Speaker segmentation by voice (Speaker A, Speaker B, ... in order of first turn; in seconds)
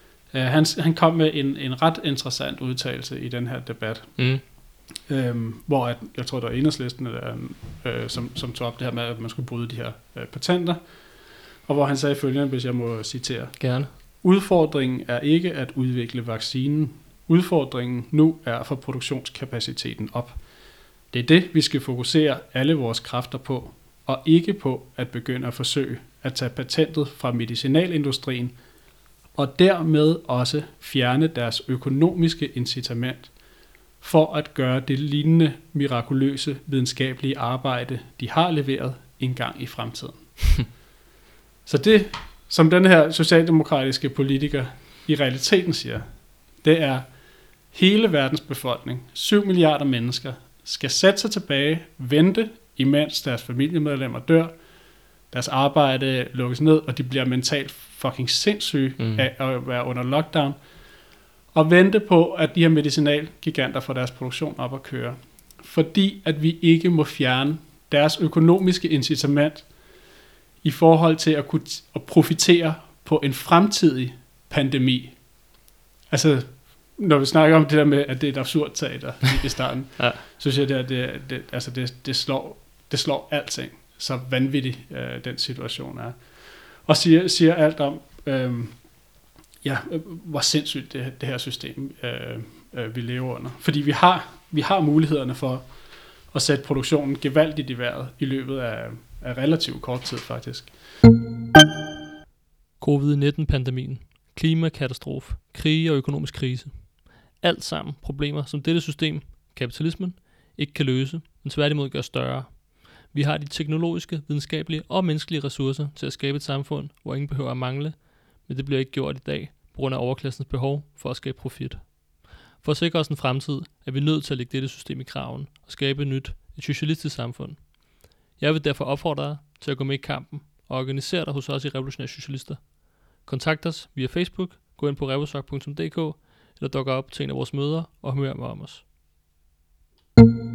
Speaker A: 0.3-28.6, 29.3-40.8, 41.6-75.5, 76.1-100.8
Speaker B: 4.2-4.4, 13.6-13.9, 59.0-59.3, 102.8-138.8